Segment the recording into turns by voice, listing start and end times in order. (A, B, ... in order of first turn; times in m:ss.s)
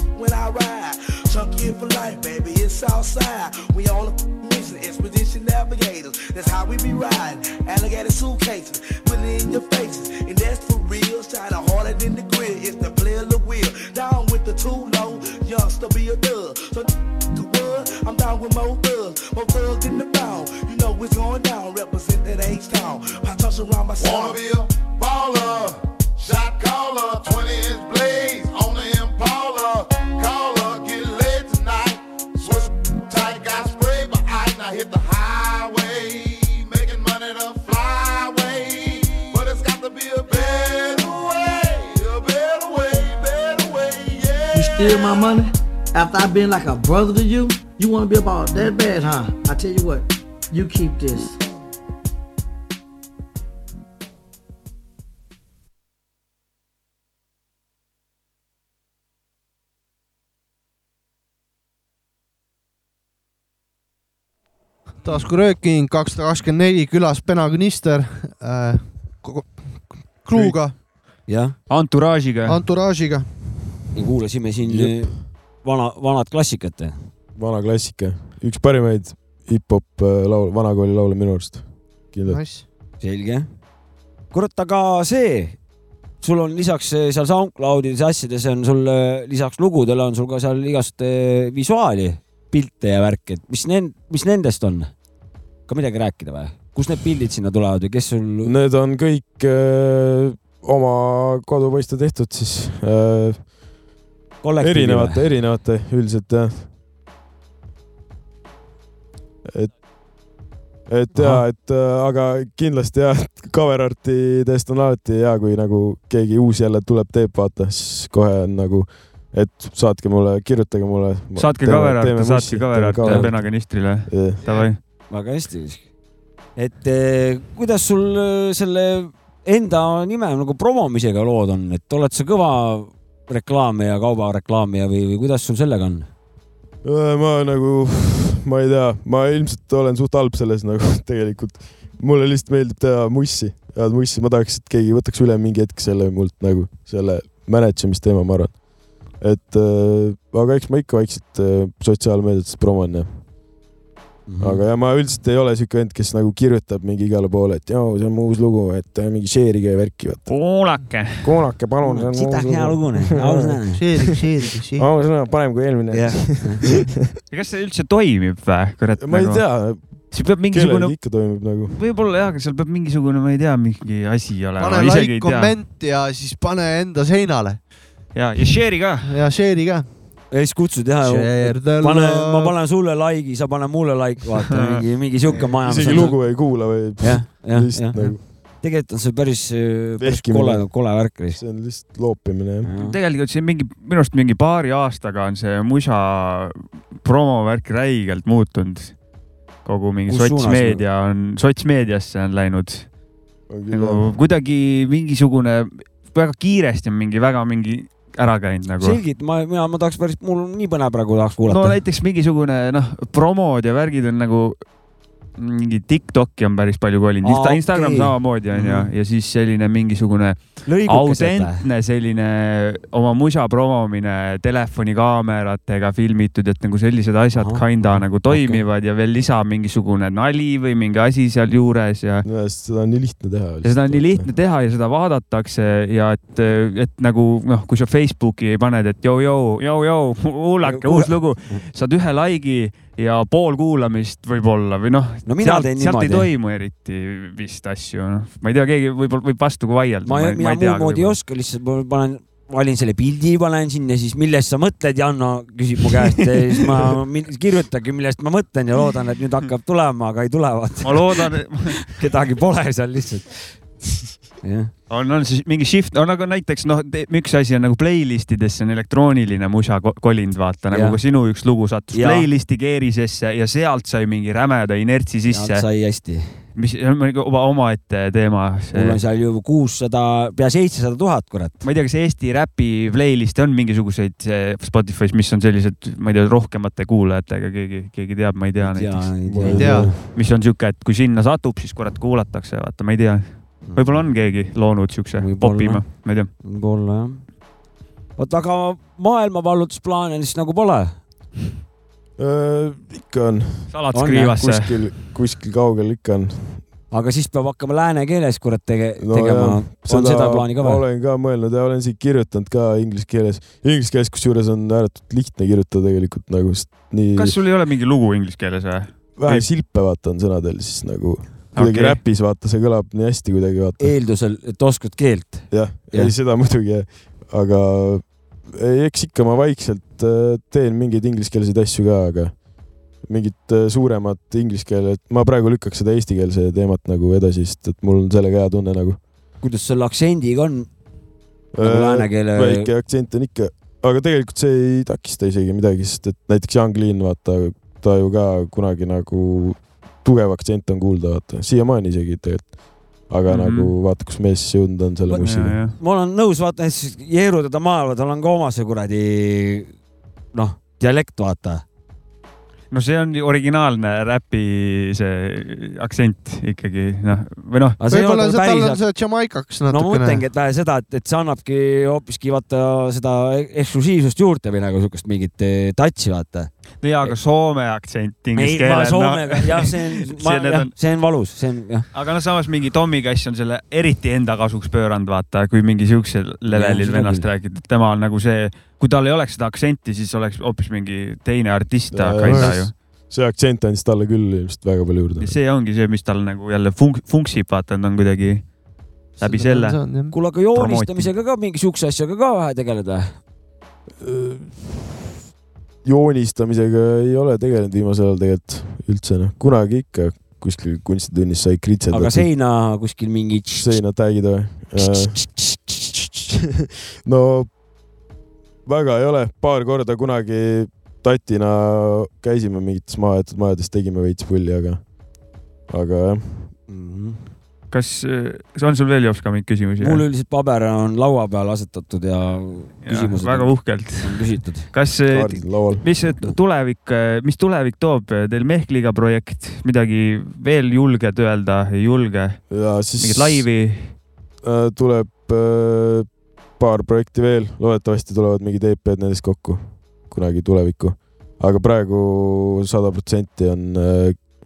0:00.1-0:24.4 A
0:24.0-0:45.3 B
0:44.5-0:51.4 C
1:05.0-1:10.7 D
1:11.3-1:11.5 E
1:11.7-1:12.6 F
1:12.5-1:13.3 D
1:13.9-1:17.0 E
1:14.6-1:15.1 G
1:17.4-1:22.4 G
1:22.2-1:22.6 D
1:23.0-1:23.5 E
1:24.3-1:25.6 E
1:26.2-1:34.9 E
1:35.7-1:38.5 E
1:38.4-1:43.5 G
1:44.4-1:45.2 E
1:44.6-1:46.7 G
1:49.4-1:49.7 G
1:50.9-2:04.4 G
1:51.1-1:51.4 E
2:01.4-2:04.8 F
2:03.0-2:03.3 E
2:05.1-2:05.8 E
2:06.6-2:16.1 E
2:16.8-2:28.6 G
2:29.1-2:33.1 G
2:34.3-2:34.6 E
2:34.4-2:40.4 G
2:40.3-2:41.3 F
2:41.2-2:44.0 G
2:41.8-2:43.8 E
2:43.8-2:44.9 D
2:44.7-2:46.8 G
2:45.9-2:46.7 E
2:47.3-2:51.0 F
2:49.0-2:51.8 G
2:51.7-2:55.6 F
2:54.6-2:57.6 D
2:58.1-2:59.2 F
2:59.0-2:59.9 D
3:00.3-3:11.4 E
3:01.0-3:02.5 D
3:05.6-3:08.2 G
3:10.0-3:12.7 G
3:12.6-3:13.0 E
3:12.8-3:19.0 F
3:19.6-3:22.9 F
3:20.1-3:20.8 E
3:23.5-3:24.1 G
3:23.7-3:29.0 F
3:28.8-3:31.8 E
3:31.5-3:34.6 F
3:35.4-3:52.2 F
3:37.2-3:38.9 E
3:40.6-3:41.6 E
3:47.3-3:48.6 E
3:52.2-3:54.3 G
3:53.6-4:11.2 F
4:00.6-4:01.6 E
4:05.2-4:06.3 E
4:10.0-4:23.6 E
4:20.8-4:21.9 F
4:24.4-4:24.7 E
4:24.9-4:35.6 F
4:30.7-4:31.0 E
4:31.9-4:32.3 E
4:35.3-4:36.3 E
4:36.6-4:39.0 F
4:38.7-4:41.6 E
4:41.6-4:56.3 F
4:48.6-4:50.0 E
4:49.2-4:50.0 G
4:49.5-4:49.9 D
4:53.6-4:54.1 E
4:55.2-4:57.3 E
4:58.2-5:01.0 E
5:02.2-5:03.8 G
5:03.7-5:04.8 F
5:03.9-5:04.4 E
5:04.3-5:06.6 G
5:06.9-5:10.8 E
5:09.0-5:17.4 G
5:17.2-5:19.5 F
5:19.2-5:23.9 G
5:21.5-5:22.0 F
5:23.8-5:26.1 E
5:25.5-5:32.4 G
5:33.0-5:39.0 G
5:39.4-5:40.7 E
5:41.5-5:55.6 G
5:41.6-5:42.7 E
5:53.3-5:53.7 F
5:55.1-5:59.7 E
5:55.2-5:55.8 F
6:00.3-6:01.6 E
6:02.7-6:07.8 F
6:07.8-6:08.8 E
6:07.9-6:10.2 D
6:09.7-6:16.5 E
6:16.8-6:20.7 F
6:18.4-6:21.9 E
6:21.9-6:32.7 F
6:26.5-6:27.3 E
6:31.9-6:35.3 G
6:32.2-6:32.6 D
6:35.2-6:38.5 F
6:39.2-6:40.0 F
6:39.2-6:40.1 D
6:40.1-6:43.1 E
6:40.5-6:41.1 F
6:44.0-6:45.0 G
6:45.8-6:52.3 G
6:51.9-6:53.8 E
6:53.5-6:55.3 G
6:54.8-6:55.6 E
6:57.0-6:57.5 G
6:58.6-7:04.8 G
7:05.7-7:06.5 G
7:06.7-7:07.2 E
7:07.7-7:10.0 F
7:09.8-7:14.7 E
7:12.8-7:23.9 F
7:15.0-7:15.9 G
7:22.5-7:23.5 G
7:24.4-7:34.2 G